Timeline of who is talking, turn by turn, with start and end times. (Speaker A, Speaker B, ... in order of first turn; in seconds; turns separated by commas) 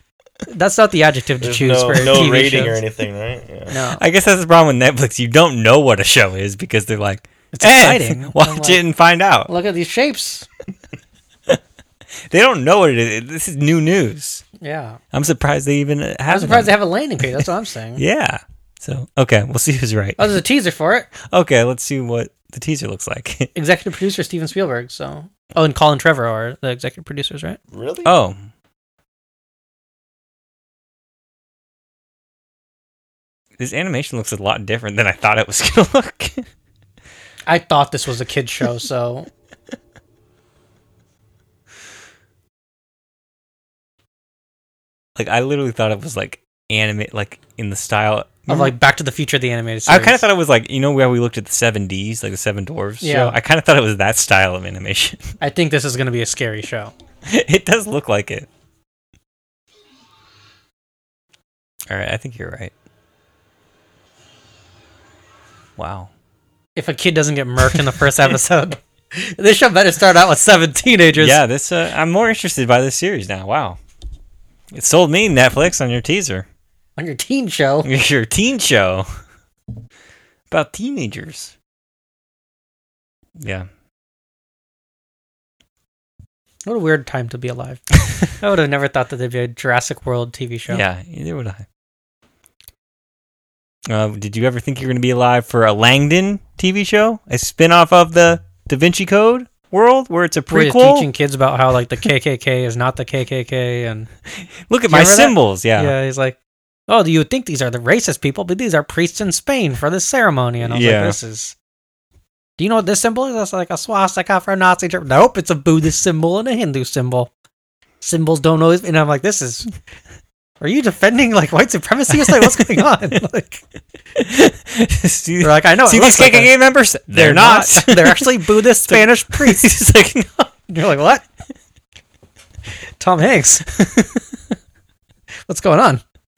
Speaker A: 0.5-2.8, Speaker B: 1.4-3.8, Speaker A: 3.7-4.0, Speaker C: 3.9-9.5, Speaker A: 7.5-8.8, Speaker A: 9.5-10.5, Speaker C: 12.3-14.4, Speaker A: 14.6-15.0, Speaker C: 15.1-17.4, Speaker A: 16.3-18.0, Speaker C: 18.0-20.4, Speaker A: 20.2-21.1, Speaker C: 21.2-23.5, Speaker A: 23.5-27.6, Speaker B: 27.7-28.1, Speaker C: 28.0-28.4, Speaker C: 33.6-36.5, Speaker A: 37.5-39.3, Speaker C: 45.1-48.8, Speaker A: 48.5-50.2, Speaker C: 49.9-55.2, Speaker A: 53.0-53.4, Speaker A: 55.4-56.9, Speaker C: 57.2-58.5, Speaker C: 61.9-62.7, Speaker C: 65.8-66.1, Speaker A: 66.8-71.4, Speaker C: 71.2-73.8, Speaker C: 74.7-76.5, Speaker A: 77.0-77.9, Speaker C: 77.8-79.1, Speaker C: 80.5-81.5, Speaker C: 83.4-83.7, Speaker A: 86.6-90.8, Speaker C: 90.7-91.7, Speaker C: 93.9-101.1, Speaker A: 100.5-104.1, Speaker C: 104.4-105.9, Speaker A: 104.9-106.4, Speaker A: 106.9-111.5, Speaker C: 110.6-111.2, Speaker A: 112.6-117.3, Speaker A: 118.0-119.7, Speaker A: 120.6-123.6, Speaker C: 122.4-122.8, Speaker C: 124.1-130.5, Speaker A: 125.4-126.5, Speaker A: 127.1-129.7, Speaker A: 130.7-131.2, Speaker A: 133.0-133.7, Speaker C: 133.7-134.2, Speaker A: 135.5-136.0